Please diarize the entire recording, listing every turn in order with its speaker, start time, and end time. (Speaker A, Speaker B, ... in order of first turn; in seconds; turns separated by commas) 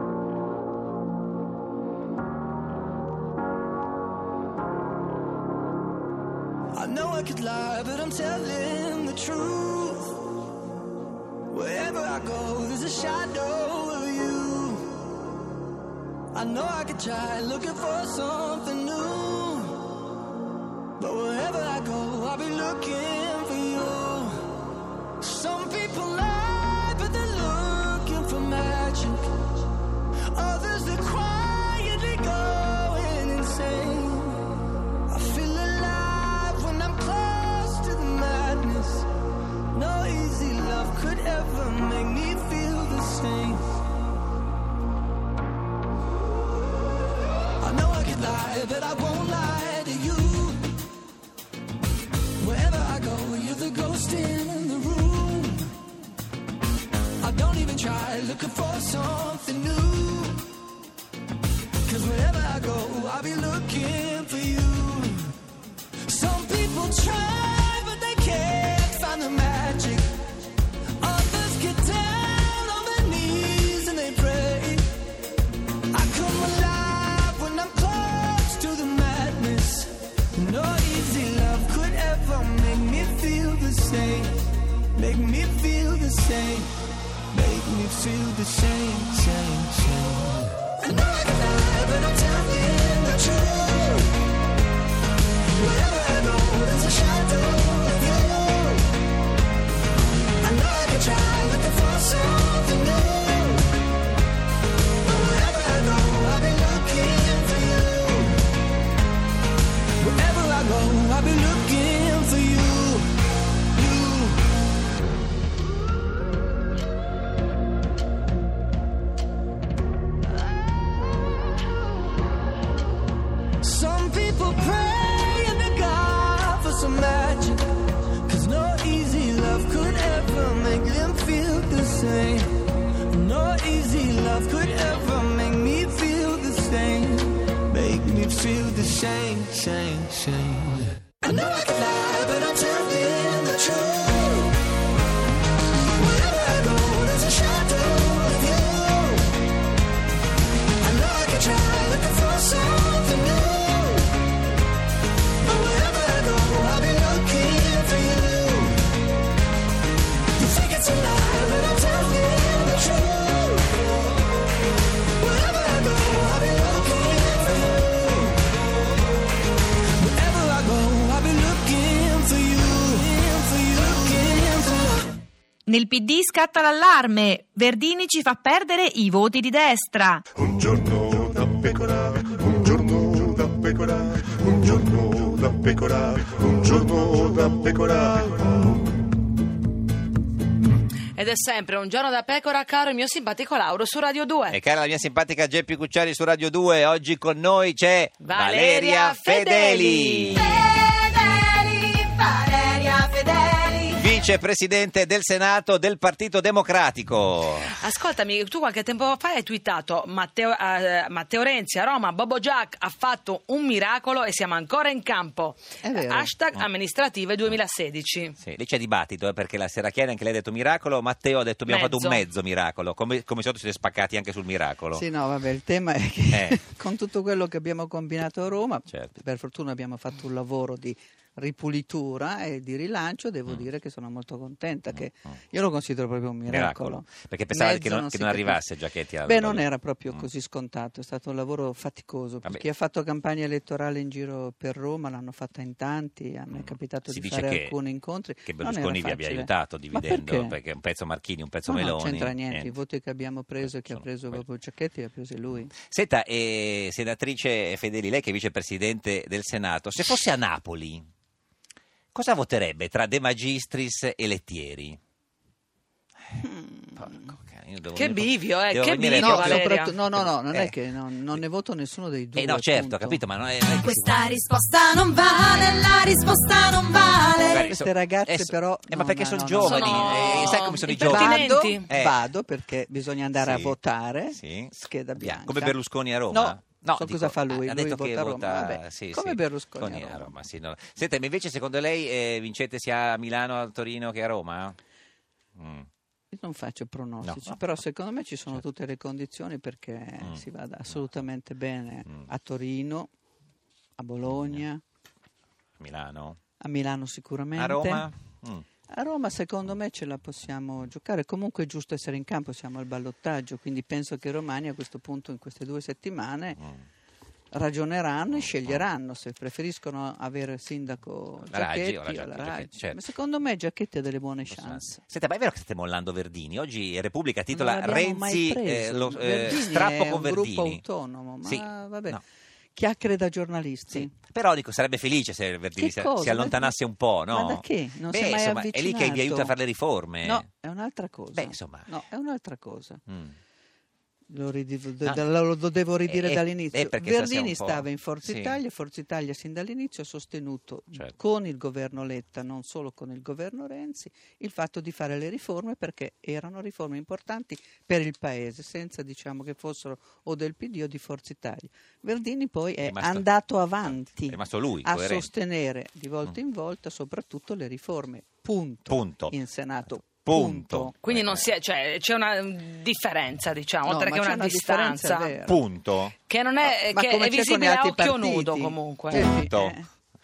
Speaker A: 6.7-10.4, Speaker A: 11.5-14.9, Speaker A: 16.3-19.9, Speaker A: 21.0-24.5, Speaker A: 25.2-29.3, Speaker A: 30.3-34.5, Speaker A: 35.1-39.1, Speaker A: 39.7-43.6, Speaker A: 47.6-50.6, Speaker A: 52.4-55.7, Speaker A: 57.2-60.5, Speaker A: 61.8-65.4, Speaker A: 66.0-70.1, Speaker A: 71.0-74.9, Speaker A: 75.9-84.3, Speaker A: 84.9-86.7, Speaker A: 87.3-94.2, Speaker A: 95.5-98.9, Speaker A: 100.4-103.7, Speaker A: 105.0-108.4, Speaker A: 110.0-113.0, Speaker A: 113.7-114.4, Speaker A: 123.6-127.6, Speaker A: 128.2-132.5, Speaker A: 133.1-144.6, Speaker A: 145.9-149.3, Speaker A: 150.8-154.1, Speaker A: 155.4-158.8, Speaker A: 160.3-163.9, Speaker A: 165.1-168.4, Speaker A: 170.0-175.1, Speaker B: 175.7-180.2, Speaker C: 180.7-182.0, Speaker C: 183.3-183.6, Speaker C: 185.0-185.9, Speaker C: 186.8-188.1, Speaker D: 191.2-194.6, Speaker E: 194.5-200.6, Speaker D: 198.2-200.7, Speaker F: 200.6-204.0, Speaker E: 203.9-207.8, Speaker D: 207.6-218.3, Speaker G: 215.8-216.3, Speaker E: 218.4-225.1, Speaker D: 221.7-222.2, Speaker G: 224.9-238.6, Speaker E: 226.3-226.6, Speaker E: 228.9-229.2, Speaker E: 234.9-235.3, Speaker E: 236.5-240.2, Speaker G: 239.2-250.6, Speaker E: 246.5-247.8, Speaker E: 248.4-252.7, Speaker G: 251.7-255.7, Speaker E: 253.6-254.4, Speaker E: 255.5-261.1, Speaker E: 262.1-265.0, Speaker G: 266.4-267.3, Speaker E: 267.0-270.7, Speaker D: 267.9-269.9, Speaker G: 269.1-273.2, Speaker E: 272.3-274.4, Speaker F: 273.7-277.6, Speaker E: 277.5-282.2, Speaker G: 277.5-290.3, Speaker D: 279.6-281.9, Speaker E: 283.3-294.8, Speaker E: 295.6-295.9, Speaker G: 296.3-303.1, Speaker E: 297.2-297.8, Speaker E: 300.2-301.0, Speaker G: 304.0-304.8, Speaker E: 304.2-304.6, Speaker E: 305.8-306.4, Speaker G: 306.6-308.1, Speaker E: 307.5-308.7, Speaker G: 308.9-316.6, Speaker E: 316.6-316.8, Speaker G: 317.5-325.0, Speaker E: 318.3-318.8, Speaker E: 321.5-323.0, Speaker E: 324.5-330.8, Speaker G: 327.5-332.2, Speaker E: 331.4-332.2, Speaker G: 332.7-334.1, Speaker E: 333.9-340.4, Speaker G: 335.8-336.8, Speaker G: 337.3-339.5, Speaker G: 340.2-343.0, Speaker E: 341.3-341.9, Speaker E: 343.1-343.4, Speaker G: 344.3-370.9, Speaker E: 346.1-348.6, Speaker E: 362.8-363.3, Speaker E: 363.8-365.3, Speaker E: 368.9-369.3, Speaker E: 370.0-371.4, Speaker D: 371.0-375.3, Speaker G: 373.9-375.6, Speaker E: 375.4-376.2, Speaker D: 376.3-379.3, Speaker G: 376.6-379.9, Speaker E: 379.2-379.8